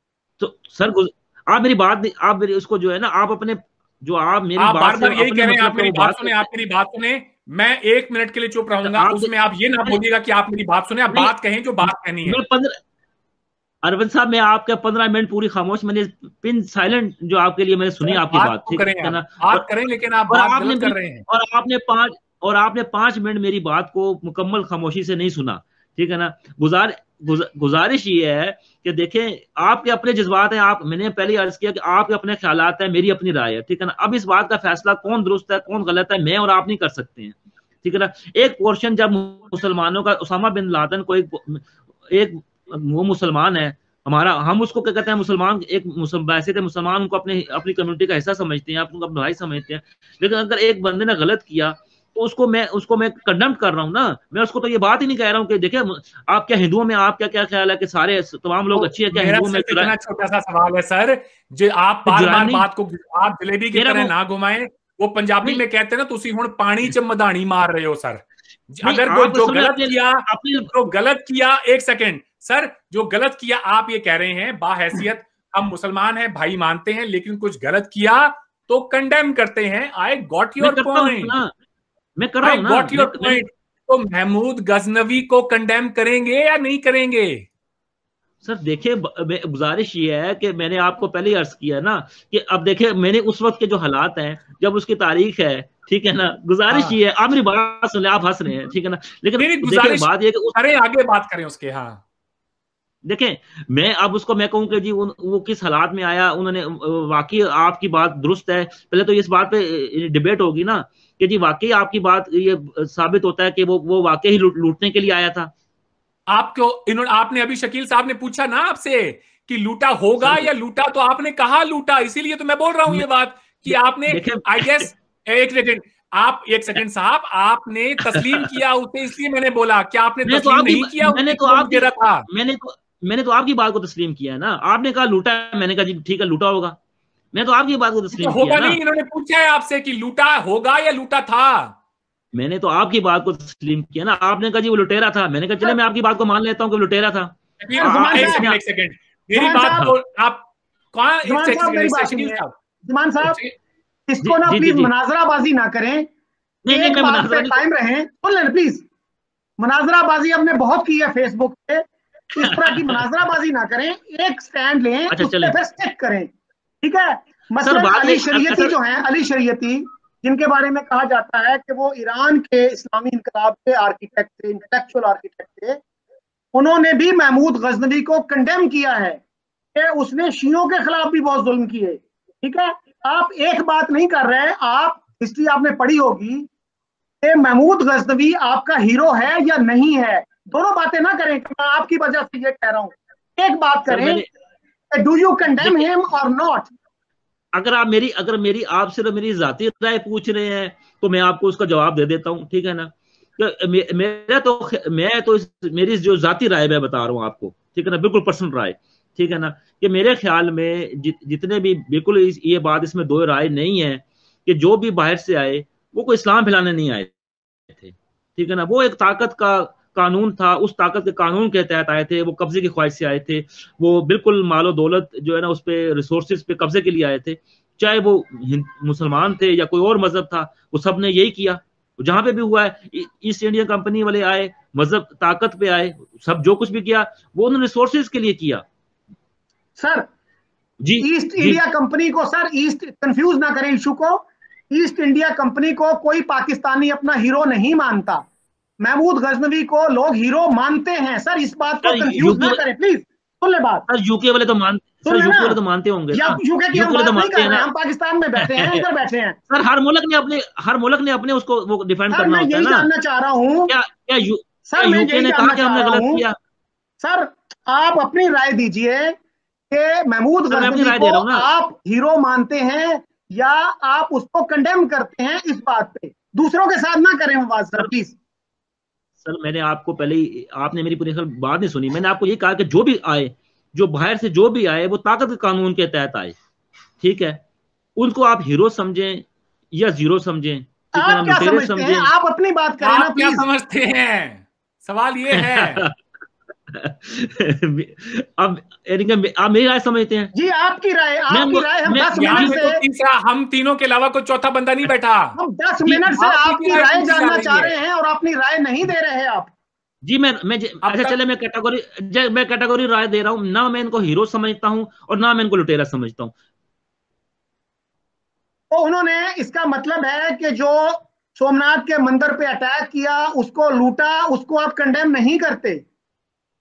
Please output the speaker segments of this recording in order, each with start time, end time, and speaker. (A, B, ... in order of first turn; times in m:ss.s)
0:00.4-0:06.5 A
0:04.6-0:12.4 B
0:08.8-0:09.3 A
0:12.2-0:12.8 A
0:13.8-0:19.6 A
0:18.0-0:21.2 B
0:20.3-0:59.9 A
0:58.7-1:21.3 B
1:02.1-1:02.7 A
1:03.7-1:04.1 A
1:08.8-1:10.9 A
1:20.6-1:21.5 A
1:22.2-1:23.4 A
1:22.4-1:27.5 B
1:28.4-1:40.6 A
1:36.7-1:37.0 B
1:39.4-1:42.0 B
1:43.0-1:55.5 A
1:56.3-2:12.2 B
2:00.2-2:00.5 A
2:03.6-2:04.9 A
2:08.0-2:08.5 A
2:10.2-2:16.8 A
2:17.3-2:18.8 A
2:18.1-2:21.7 B
2:22.3-2:28.6 A
2:27.6-2:32.5 B
2:27.8-2:28.4 C
2:29.3-2:29.9 C
2:31.2-2:33.4 C
2:33.2-2:33.5 B
2:34.1-2:36.1 C
2:34.2-2:34.9 A
2:36.6-2:37.6 A
2:36.7-2:38.8 C
2:39.6-2:46.3 C
2:42.4-2:43.0 A
2:45.1-2:45.5 A
2:46.8-2:55.8 C
2:47.6-2:48.7 A
2:56.5-2:59.2 C
2:59.7-3:06.5 C
3:07.2-3:14.2 C
3:13.9-3:14.2 A
3:14.9-3:16.7 C
3:15.6-3:15.9 A
3:17.5-3:37.1 A
3:37.7-3:58.6 A
3:59.8-4:00.1 C
4:00.8-4:01.6 A
4:01.0-4:08.2 C
4:08.8-4:13.8 C
4:11.8-4:12.6 A
4:13.9-4:17.7 A
4:15.0-4:15.6 C
4:16.1-4:19.4 C
4:18.4-4:18.8 A
4:19.5-4:22.9 A
4:22.1-4:23.7 C
4:23.7-4:26.4 A
4:24.7-4:26.2 C
4:27.0-4:29.1 C
4:29.7-4:38.2 C
4:30.5-4:31.5 A
4:39.2-4:46.3 A
4:47.0-4:47.4 A
4:48.0-4:52.1 A
4:51.0-4:53.4 C
4:52.8-4:55.8 B
4:55.3-4:55.9 A
4:56.7-5:00.3 A
5:00.3-5:02.8 C
5:01.3-5:02.6 A
5:02.2-5:07.7 B
5:05.4-5:09.5 C
5:10.0-5:16.3 A
5:10.8-5:11.2 B
5:18.7-5:25.8 C